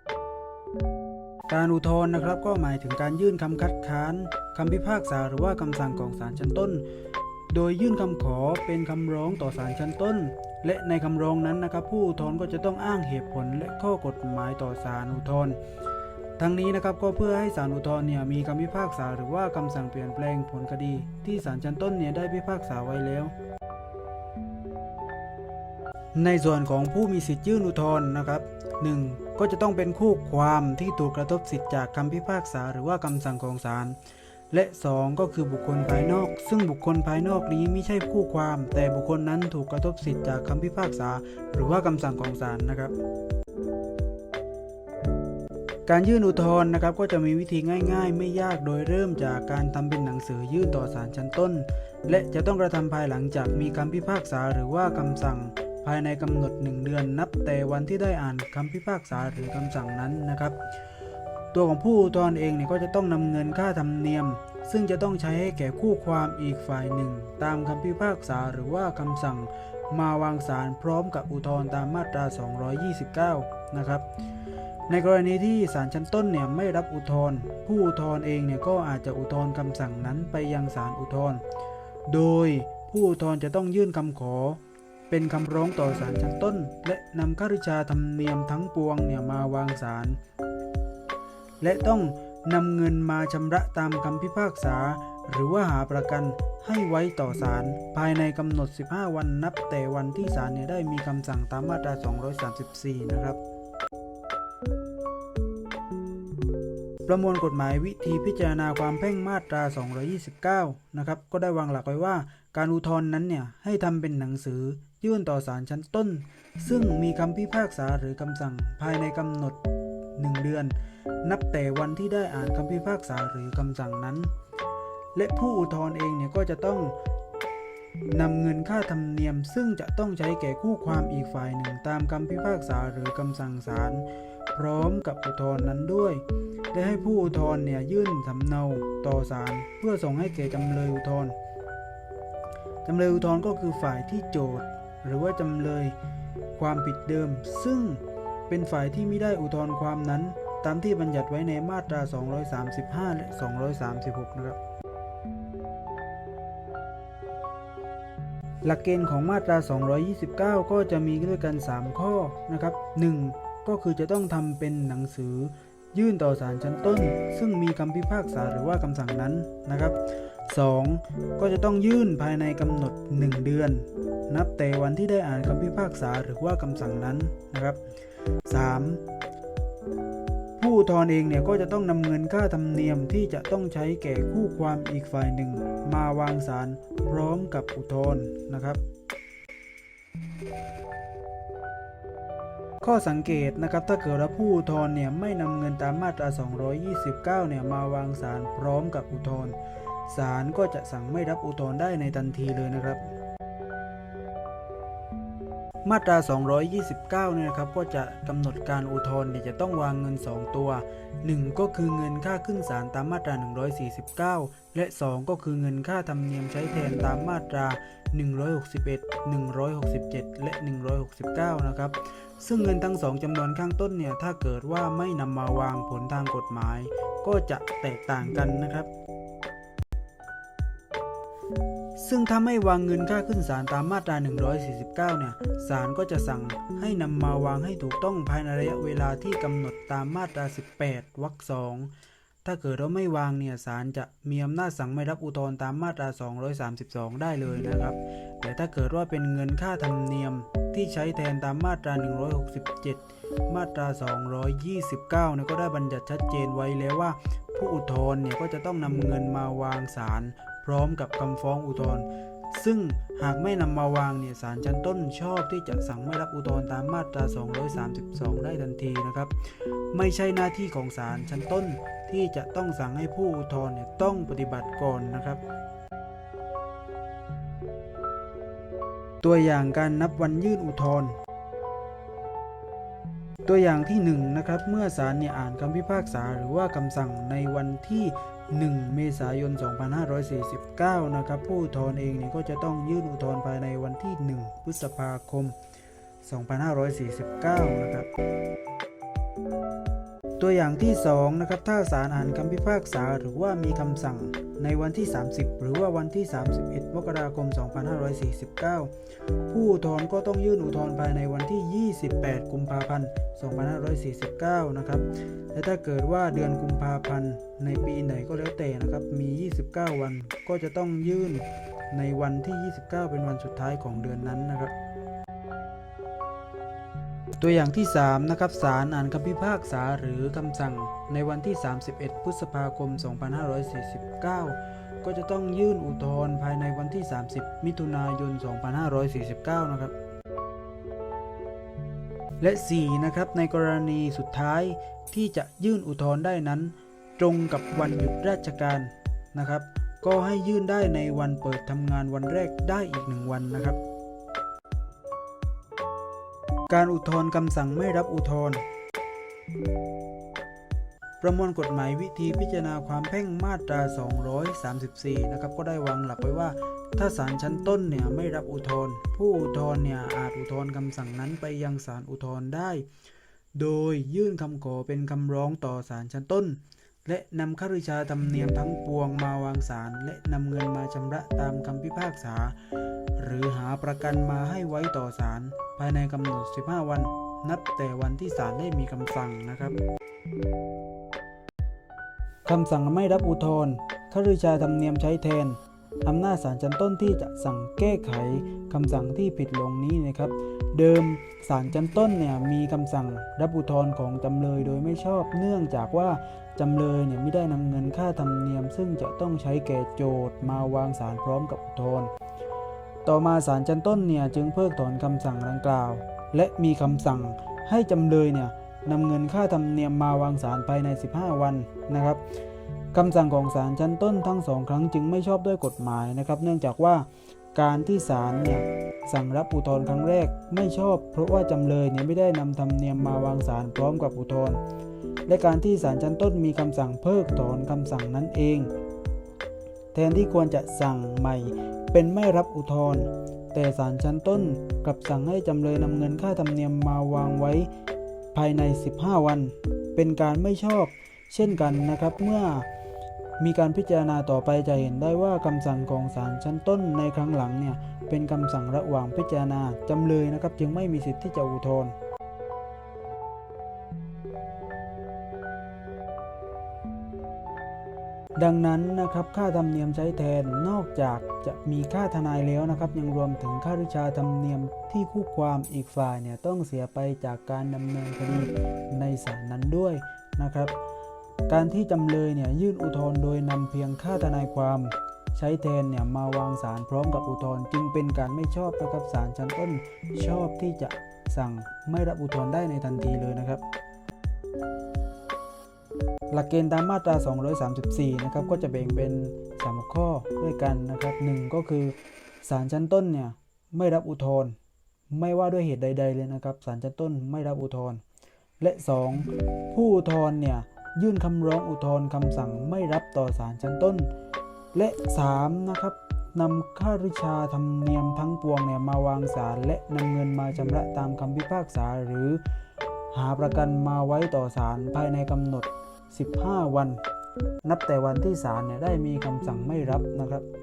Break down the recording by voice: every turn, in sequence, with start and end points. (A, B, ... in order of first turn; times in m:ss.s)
0:01.5-0:06.8 A
0:07.5-0:15.6 A
0:16.4-0:23.3 A
0:26.2-0:34.0 A
0:34.5-0:43.0 A
0:45.9-1:00.6 A
1:01.5-1:14.0 A
1:14.9-1:21.4 A
1:22.1-1:30.2 A
1:31.6-1:43.4 A
1:47.1-1:59.6 A
2:00.2-2:04.3 A
2:05.2-2:07.0 A
2:08.1-2:21.4 A
2:22.8-2:26.0 A
2:26.6-2:34.6 A
2:38.6-2:57.8 A
2:58.5-2:59.0 A
3:00.6-3:08.8 A
3:12.8-3:23.1 A
3:25.8-3:48.9 A
3:52.0-4:01.9 A
4:02.4-4:35.4 A
4:39.2-4:41.2 A
4:43.4-4:55.6 A
4:56.2-4:58.1 A
5:00.4-5:08.9 A
5:09.5-5:24.7 A
5:27.4-5:39.9 A
5:42.4-5:53.8 A
5:56.7-5:58.6 A
6:01.2-6:12.9 A
6:13.6-6:22.6 A
6:23.2-6:29.8 A
6:32.4-6:52.1 A
6:53.0-7:02.2 A
7:02.9-7:14.6 A
7:15.3-7:18.7 A
7:19.9-7:27.7 A
7:28.3-7:32.7 A
7:33.4-7:42.0 A
7:48.4-8:00.8 A
8:01.5-8:13.6 A
8:16.3-8:24.6 A
8:25.1-8:28.0 A
8:28.6-8:34.1 A
8:34.7-8:42.4 A
8:43.1-8:47.0 A
8:47.6-8:50.4 A